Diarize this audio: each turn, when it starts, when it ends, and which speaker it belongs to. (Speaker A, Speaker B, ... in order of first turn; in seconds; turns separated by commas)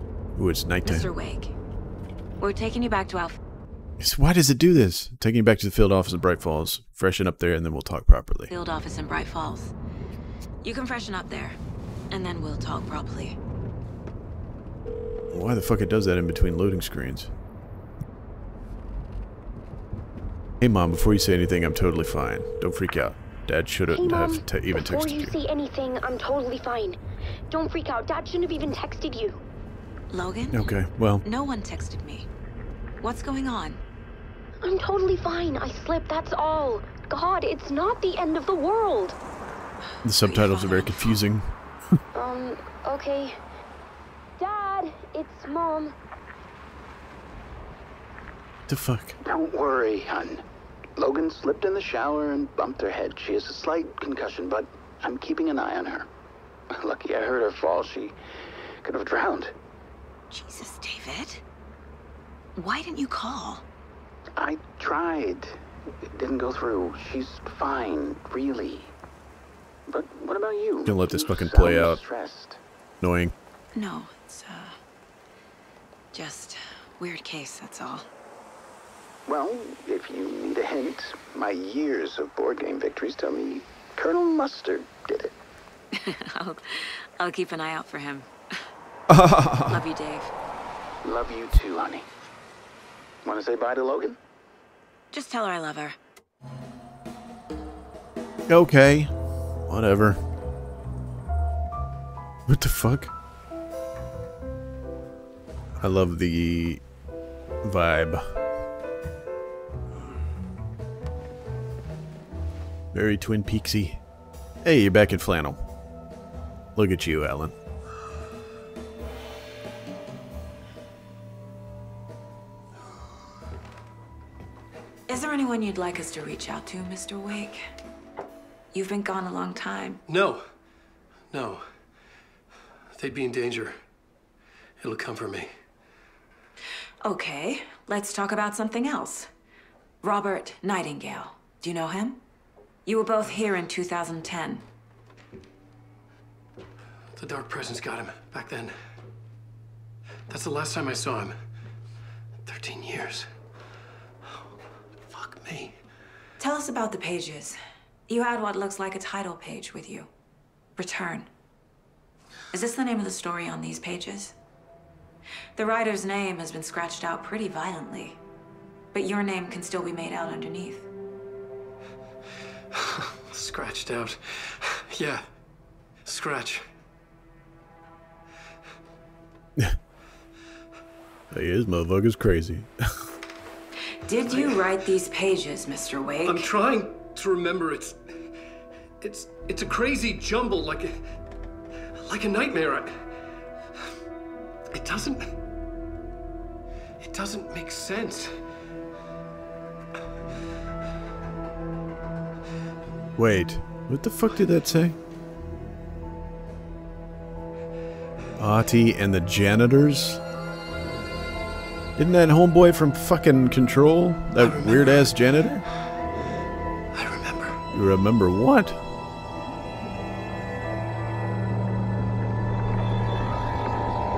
Speaker A: 0.4-1.1, Speaker B: 0.8-1.6, Speaker B: 2.4-3.4, Speaker A: 4.0-8.5, Speaker B: 8.5-9.7, Speaker B: 10.6-11.6, Speaker B: 12.1-13.4, Speaker A: 15.3-17.3, Speaker A: 20.6-25.4, Speaker C: 23.9-27.0, Speaker C: 27.5-29.4, Speaker B: 30.1-30.6, Speaker A: 30.5-31.2, Speaker B: 31.2-32.3, Speaker B: 33.0-33.8, Speaker C: 34.6-39.2, Speaker A: 40.0-42.0, Speaker B: 40.1-41.1, Speaker C: 42.1-43.4, Speaker C: 44.4-46.0, Speaker A: 48.7-49.2, Speaker D: 49.2-50.4, Speaker D: 51.0-56.1, Speaker D: 56.7-58.2, Speaker D: 58.8-59.5, Speaker B: 60.3-61.4, Speaker B: 62.6-63.6, Speaker D: 64.4-65.6, Speaker D: 66.1-68.9, Speaker D: 69.9-72.6, Speaker A: 70.9-72.0, Speaker A: 73.0-73.3, Speaker B: 73.8-74.8, Speaker B: 76.1-78.1, Speaker D: 79.3-85.3, Speaker B: 85.9-88.7, Speaker A: 89.1-89.8, Speaker B: 89.6-90.3, Speaker D: 91.0-92.1, Speaker D: 93.2-94.2, Speaker B: 95.1-96.0, Speaker A: 98.5-99.1, Speaker A: 99.7-100.2, Speaker A: 102.5-103.1, Speaker A: 105.8-106.8, Speaker A: 107.6-108.4, Speaker A: 112.9-114.0, Speaker A: 114.6-115.6, Speaker A: 116.8-117.6, Speaker B: 125.1-127.6, Speaker B: 128.7-130.0, Speaker E: 130.1-130.4, Speaker E: 131.3-131.7, Speaker E: 132.9-133.8, Speaker E: 134.8-135.5, Speaker B: 137.0-139.3, Speaker B: 140.0-142.2, Speaker B: 142.8-144.7, Speaker E: 147.2-148.8, Speaker E: 150.3-151.4, Speaker E: 152.5-153.3, Speaker E: 155.1-155.8, Speaker B: 156.4-160.1, Speaker B: 160.8-161.3, Speaker B: 162.5-164.4, Speaker B: 165.6-168.2, Speaker B: 168.9-170.9, Speaker E: 172.7-175.2, Speaker E: 176.1-176.7, Speaker A: 181.3-183.1, Speaker B: 184.1-186.5, Speaker E: 184.3-184.6, Speaker E: 186.2-188.0, Speaker E: 189.0-191.0, Speaker E: 192.0-193.0, Speaker E: 194.7-195.3, Speaker E: 197.0-198.3, Speaker A: 203.2-205.0, Speaker A: 208.4-210.2, Speaker A: 212.0-215.7, Speaker E: 214.4-215.6, Speaker E: 216.9-217.6, Speaker A: 217.7-218.8